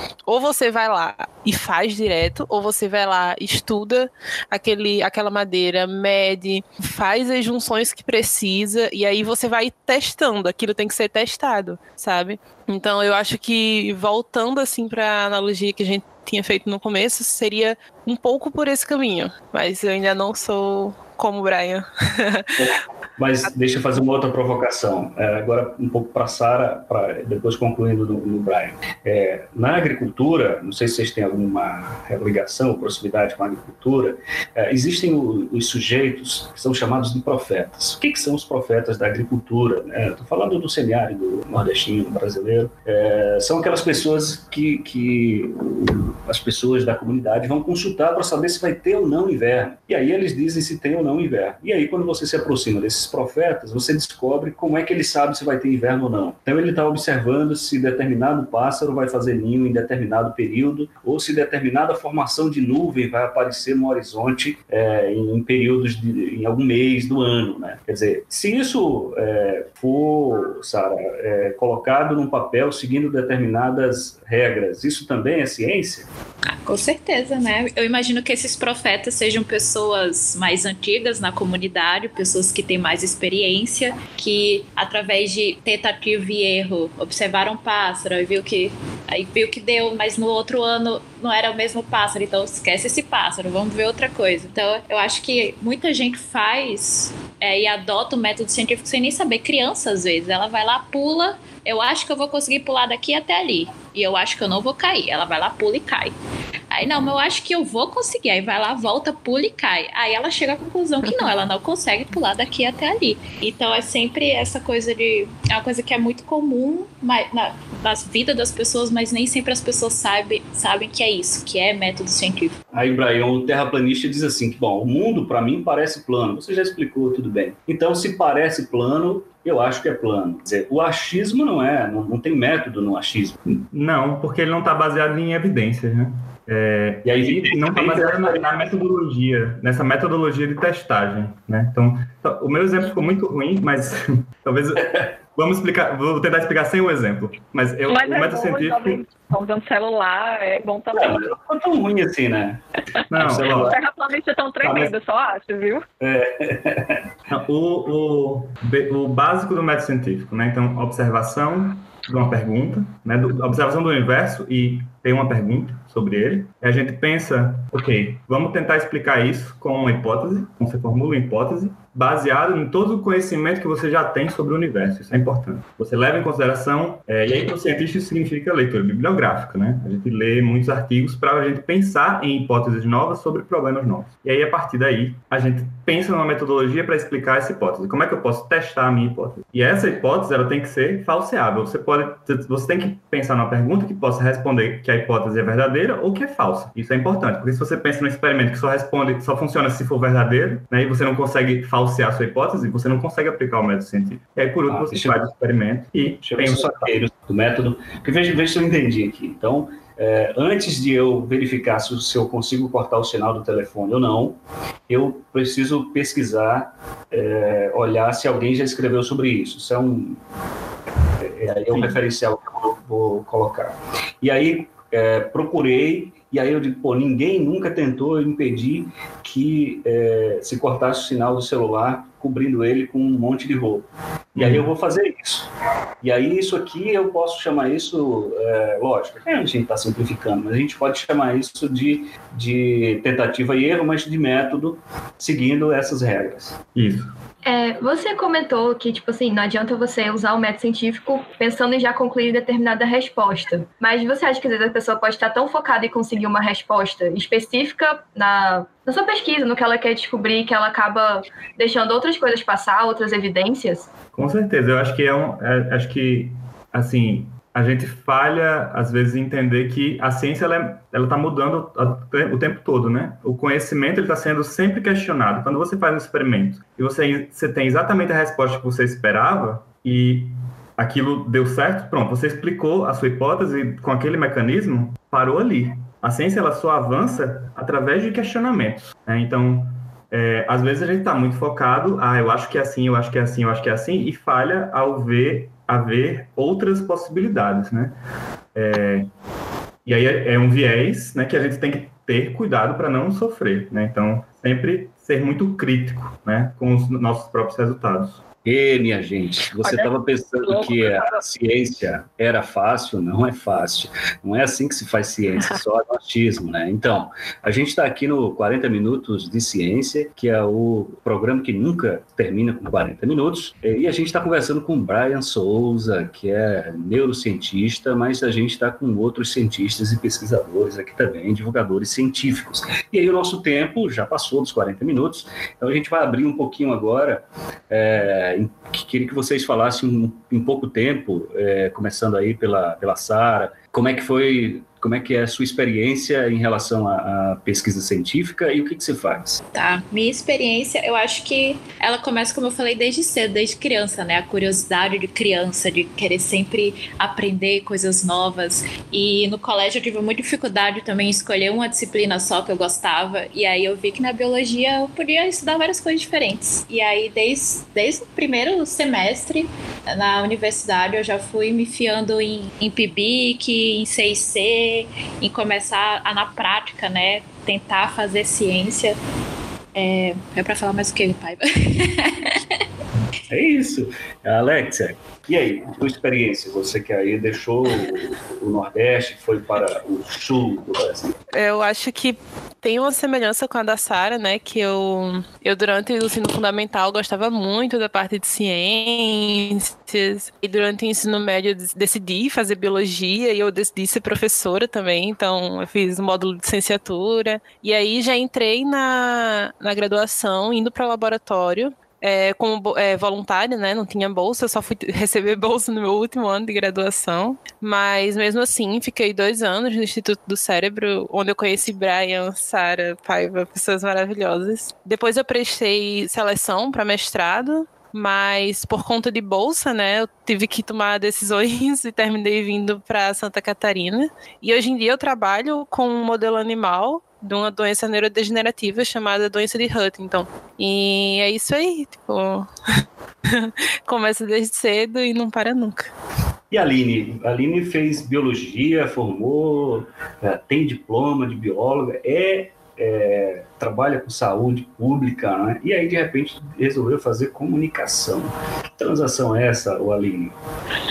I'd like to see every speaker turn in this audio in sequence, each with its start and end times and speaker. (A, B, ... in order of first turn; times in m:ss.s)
0:00.3-0:22.7 A
0:22.6-1:16.1 B
1:16.5-1:46.2 C
1:46.7-2:02.6 C
2:02.7-2:13.4 B
2:13.5-2:29.0 D
2:17.1-2:18.8 B
2:27.9-2:31.2 E
2:30.9-2:32.6 B
2:33.1-2:33.8 D
2:33.2-2:33.8 B
2:33.5-2:35.8 E
2:34.6-2:34.9 D
2:36.0-2:37.0 B
2:37.3-3:26.9 D
3:24.7-3:25.2 B
3:26.2-3:40.2 B
3:41.2-3:55.5 B
3:54.4-3:54.7 D
3:56.0-4:06.6 B
4:06.8-4:07.1 D
4:07.4-4:23.9 F
4:24.2-4:58.0 D
4:58.6-4:59.1 D
4:59.8-5:08.2 D
5:08.4-5:49.4 B
5:09.6-5:09.9 E
5:10.4-5:11.2 E
5:49.5-6:19.0 C
6:19.8-6:22.4 C
6:23.3-6:31.2 B
6:31.3-7:22.5 A
7:23.3-7:25.9 A
7:26.5-7:40.4 B